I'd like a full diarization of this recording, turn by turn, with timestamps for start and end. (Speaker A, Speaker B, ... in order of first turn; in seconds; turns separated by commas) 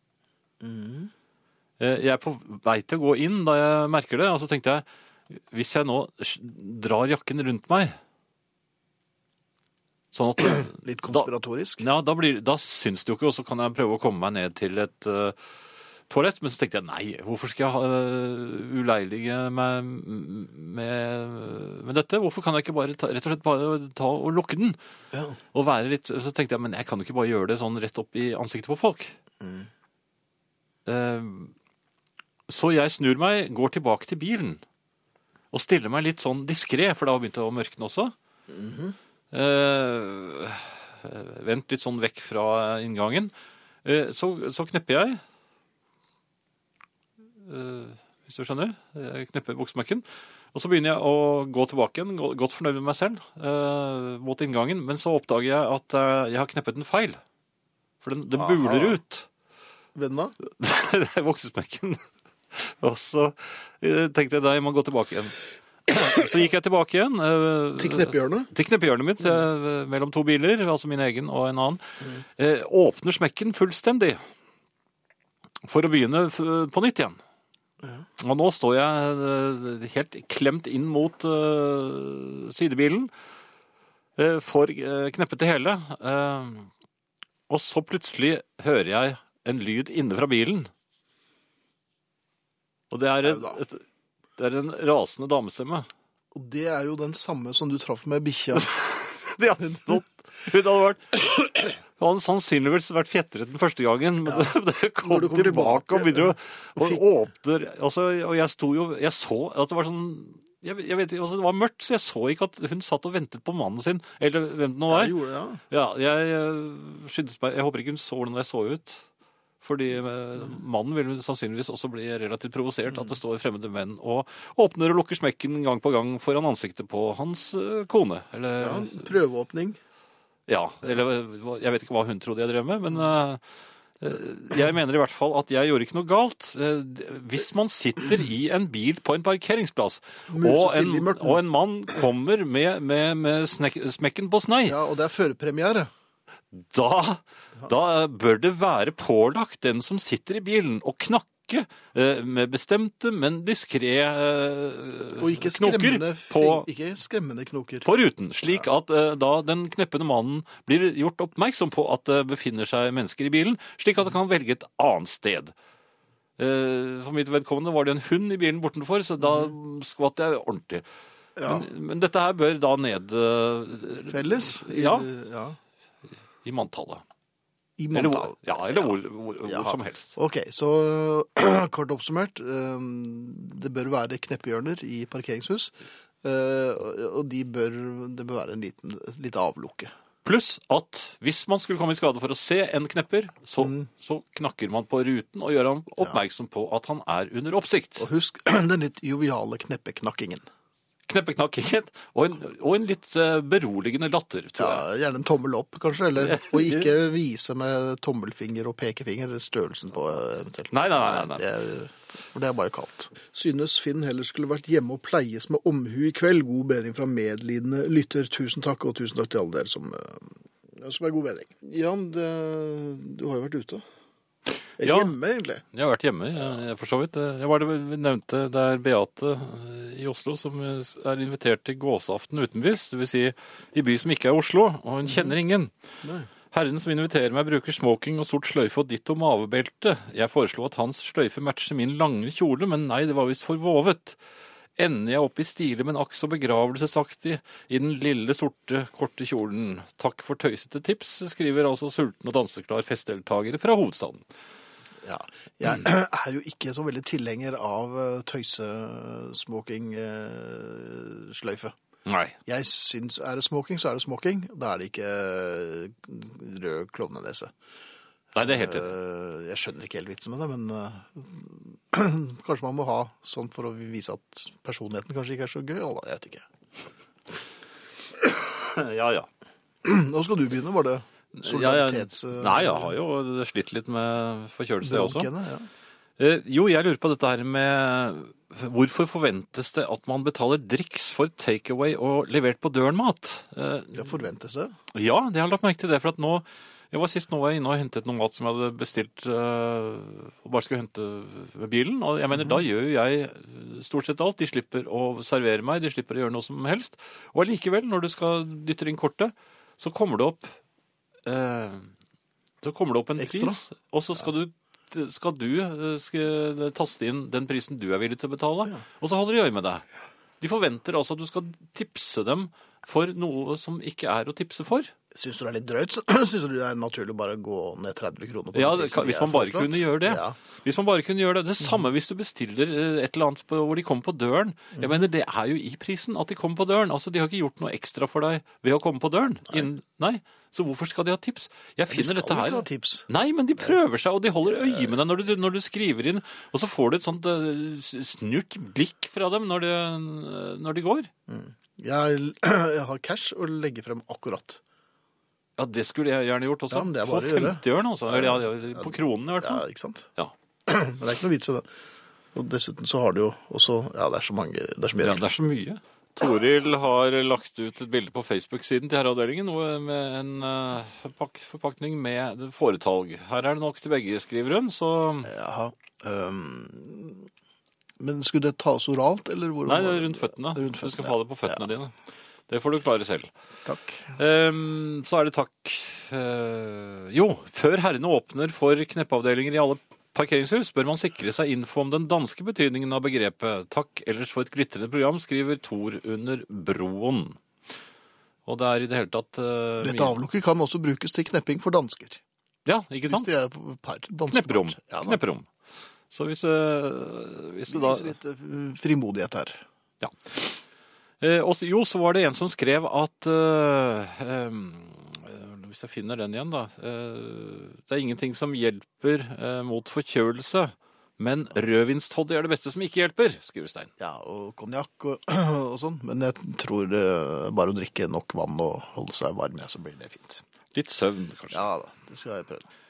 Speaker A: 0.6-1.1, Speaker B: 1.8-7.9, Speaker B: 10.1-11.3, Speaker A: 10.5-11.8, Speaker B: 11.8-15.4, Speaker B: 16.1-24.8, Speaker A: 25.1-25.4, Speaker B: 25.5-29.1, Speaker A: 29.4-29.7, Speaker B: 30.9-31.5, Speaker B: 32.5-34.6, Speaker B: 35.5-38.1, Speaker A: 38.5-38.9, Speaker B: 39.3-43.3, Speaker B: 43.8-45.2, Speaker B: 47.4-57.2, Speaker B: 58.0-59.3, Speaker A: 58.3-59.0, Speaker A: 59.9-60.3, Speaker B: 60.4-65.3, Speaker B: 65.9-71.8, Speaker A: 67.8-68.5, Speaker B: 72.4-74.2, Speaker B: 75.6-77.2, Speaker B: 78.2-83.1, Speaker B: 84.2-86.7, Speaker B: 87.5-90.7, Speaker B: 92.9-93.8, Speaker A: 93.3-93.6, Speaker B: 94.4-95.9, Speaker A: 96.3-98.7, Speaker B: 98.5-115.2, Speaker A: 104.2-104.5, Speaker A: 105.0-107.0, Speaker A: 114.9-115.6, Speaker B: 115.7-119.0, Speaker B: 119.6-129.1, Speaker A: 128.6-129.8, Speaker B: 130.5-133.4, Speaker B: 134.0-144.8, Speaker A: 140.3-141.4, Speaker A: 144.7-145.9, Speaker B: 146.5-156.7, Speaker A: 155.2-157.9, Speaker B: 157.8-165.5, Speaker B: 166.4-170.8, Speaker A: 171.4-171.7, Speaker B: 171.4-175.1, Speaker A: 174.1-175.6, Speaker B: 176.4-177.0, Speaker A: 177.8-178.8, Speaker B: 177.9-180.2, Speaker A: 179.4-189.9, Speaker B: 190.2-198.1, Speaker A: 193.6-193.9, Speaker A: 198.0-200.4, Speaker B: 201.1-204.8, Speaker A: 204.6-223.8, Speaker B: 206.2-206.9, Speaker B: 210.7-211.4, Speaker A: 224.8-225.6, Speaker B: 224.8-225.1, Speaker B: 225.7-235.7, Speaker A: 235.1-235.3, Speaker A: 236.0-236.3, Speaker B: 236.5-244.2, Speaker B: 244.8-254.2, Speaker A: 255.0-261.7, Speaker B: 262.1-262.3, Speaker A: 262.4-267.5, Speaker B: 268.3-268.9, Speaker A: 268.4-276.4, Speaker B: 278.4-279.3, Speaker A: 279.8-282.9, Speaker B: 281.3-285.3, Speaker A: 284.8-285.7, Speaker B: 286.2-294.1, Speaker A: 293.9-294.7, Speaker B: 294.9-310.6, Speaker B: 311.2-311.9, Speaker B: 312.6-319.8, Speaker A: 313.2-313.6, Speaker B: 320.4-324.9, Speaker A: 325.1-330.4, Speaker B: 328.5-351.1, Speaker A: 341.9-343.1, Speaker A: 351.3-354.6, Speaker B: 355.6-359.6, Speaker A: 356.7-360.1, Speaker A: 360.6-361.7, Speaker A: 362.3-365.2, Speaker B: 365.0-375.3, Speaker A: 375.2-377.3, Speaker A: 378.0-381.6, Speaker B: 379.6-381.9, Speaker B: 382.5-383.3, Speaker A: 383.6-384.1, Speaker B: 384.2-397.4, Speaker B: 398.4-400.2, Speaker A: 399.8-402.2, Speaker B: 402.6-403.3, Speaker A: 403.1-405.2, Speaker B: 404.3-405.5, Speaker B: 406.1-408.1, Speaker A: 407.7-409.6, Speaker B: 410.0-410.6, Speaker B: 411.2-423.9, Speaker A: 424.0-430.4, Speaker B: 430.7-431.6, Speaker A: 431.5-432.7